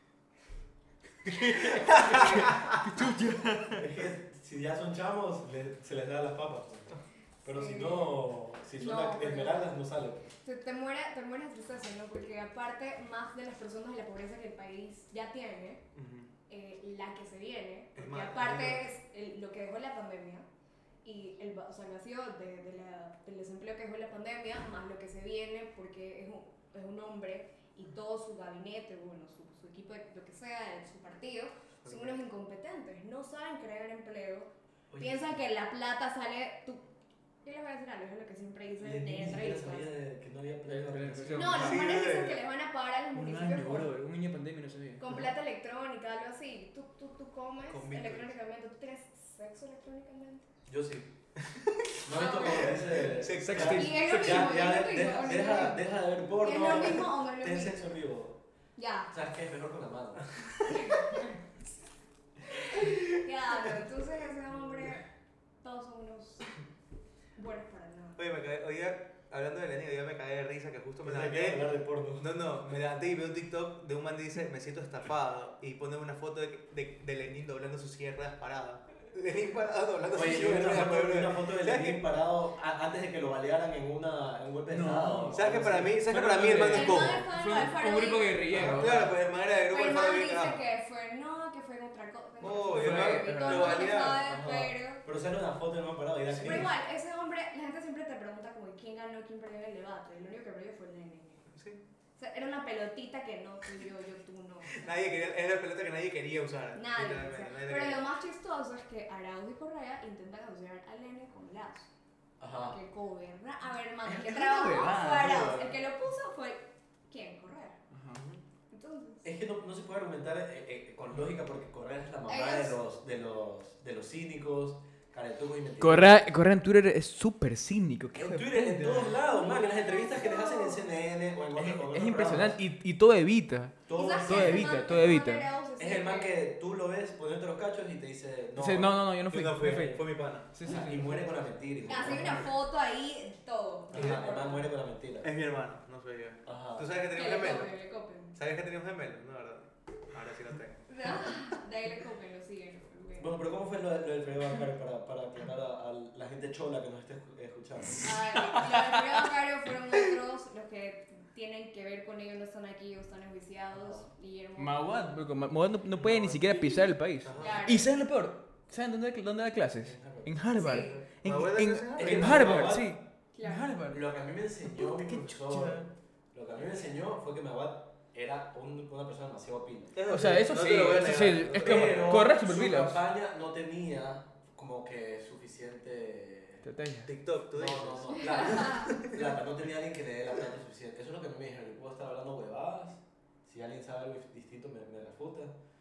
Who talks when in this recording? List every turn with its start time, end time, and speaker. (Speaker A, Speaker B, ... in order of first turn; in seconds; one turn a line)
Speaker A: 1.3-2.8
Speaker B: 1.8-3.9
Speaker C: 3.8-10.3
Speaker D: 7.4-9.7
Speaker D: 10.4-15.8
Speaker A: 15.9-16.3
Speaker D: 16.5-20.5
Speaker A: 18.0-18.9
Speaker D: 21.0-36.9
Speaker A: 31.9-32.2
Speaker C: 34.9-35.4
Speaker D: 37.4-39.9
Speaker C: 38.8-41.8
Speaker B: 40.7-41.8
Speaker D: 41.4-43.9
Speaker A: 41.6-42.4
Speaker B: 43.1-45.3
Speaker D: 45.0-50.5
Speaker A: 47.7-48.3
Speaker C: 50.7-51.1
Speaker A: 51.5-53.9
Speaker C: 52.0-58.4
Speaker D: 52.1-52.8
Speaker B: 53.4-54.6
Speaker D: 53.6-55.9
Speaker D: 56.4-57.9
Speaker D: 58.8-59.1
Speaker C: 59.1-60.2
Speaker D: 60.7-61.4
Speaker D: 62.6-65.1
Speaker D: 65.6-66.5
Speaker D: 67.4-68.2
Speaker A: 68.2-71.7
Speaker C: 71.0-72.3
Speaker A: 72.2-82.0
Speaker C: 80.1-86.0
Speaker B: 84.7-89.1
Speaker A: 85.3-87.2
Speaker D: 86.7-88.4
Speaker A: 88.5-90.6
Speaker C: 88.5-88.9
Speaker D: 89.7-95.0
Speaker A: 92.4-94.2
Speaker B: 92.6-93.9
Speaker C: 94.1-96.7
Speaker D: 96.4-101.5
Speaker A: 101.5-101.8
Speaker D: 102.2-104.9
Speaker A: 104.8-108.1
Speaker D: 106.8-111.9
Speaker C: 112.4-112.8
Speaker D: 112.7-117.8
Speaker B: 114.1-115.8
Speaker B: 117.9-118.2
Speaker A: 118.2-118.4
Speaker D: 118.7-119.3
Speaker C: 119.2-126.2
Speaker D: 122.3-122.8
Speaker B: 125.8-129.2
Speaker C: 128.2-132.6
Speaker D: 129.3-130.9
Speaker B: 131.5-135.5
Speaker C: 133.9-134.8
Speaker D: 133.9-136.4
Speaker C: 135.8-139.1
Speaker B: 138.6-141.3
Speaker A: 139.3-140.5
Speaker C: 140.6-142.5
Speaker D: 141.9-144.7
Speaker C: 143.9-145.3
Speaker A: 143.9-144.2
Speaker A: 145.2-147.7
Speaker C: 146.4-146.9
Speaker D: 147.1-148.4
Speaker A: 148.3-150.8
Speaker D: 150.9-153.4
Speaker C: 153.2-158.1
Speaker D: 158.0-164.9
Speaker B: 158.6-159.0
Speaker C: 163.7-164.1
Speaker B: 164.6-174.1
Speaker C: 166.0-166.9
Speaker A: 167.2-167.6
Speaker D: 167.4-167.9
Speaker C: 169.8-170.4
Speaker D: 170.6-171.0
Speaker A: 170.7-172.7
Speaker C: 171.9-173.0
Speaker D: 173.3-173.7
Speaker C: 173.9-180.0
Speaker B: 174.6-175.9
Speaker A: 179.9-182.3
Speaker B: 180.1-183.0
Speaker C: 181.5-186.7
Speaker B: 186.6-187.1
Speaker A: 187.1-189.3
Speaker C: 187.5-195.5
Speaker D: 188.2-188.9